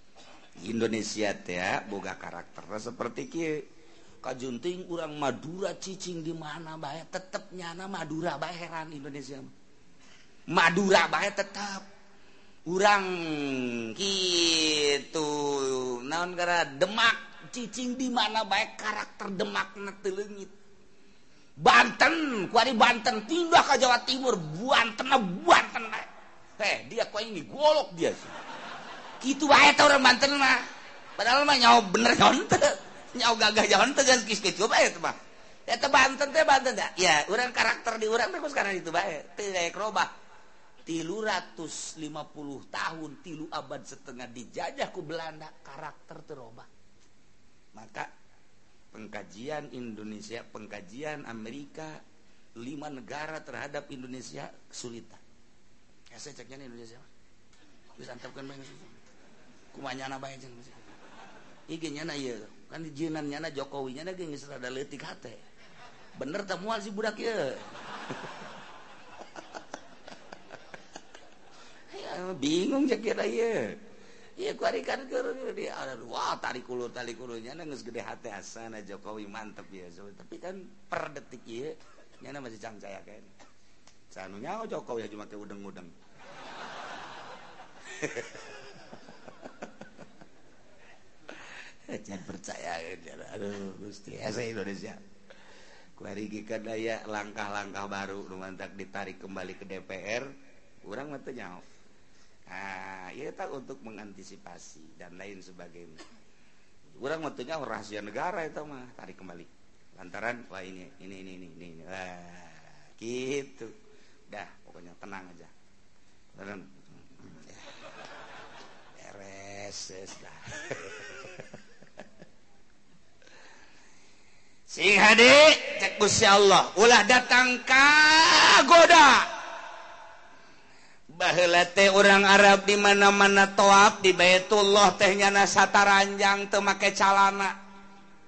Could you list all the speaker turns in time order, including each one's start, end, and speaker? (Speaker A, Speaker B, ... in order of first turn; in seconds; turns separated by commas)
Speaker A: 0.6-3.6, Speaker A: 4.2-9.5, Speaker A: 10.5-11.9, Speaker A: 12.7-20.5, Speaker A: 21.6-28.3, Speaker A: 29.2-30.6, Speaker A: 31.2-40.1, Speaker A: 40.9-46.7, Speaker A: 47.7-48.1, Speaker A: 48.9-52.0, Speaker A: 52.6-55.2, Speaker A: 56.1-57.1, Speaker A: 58.0-59.0, Speaker A: 59.7-60.8, Speaker A: 61.7-65.4, Speaker A: 66.2-67.7, Speaker A: 71.9-73.8, Speaker A: 74.4-83.3, Speaker A: 84.1-85.9, Speaker A: 87.9-88.4, Speaker A: 91.9-95.0, Speaker A: 96.0-101.6, Speaker A: 102.5-106.0, Speaker A: 107.0-113.7, Speaker A: 114.3-115.5, Speaker A: 116.3-117.6, Speaker A: 119.0-121.2, Speaker A: 124.7-129.3, Speaker A: 131.1-137.5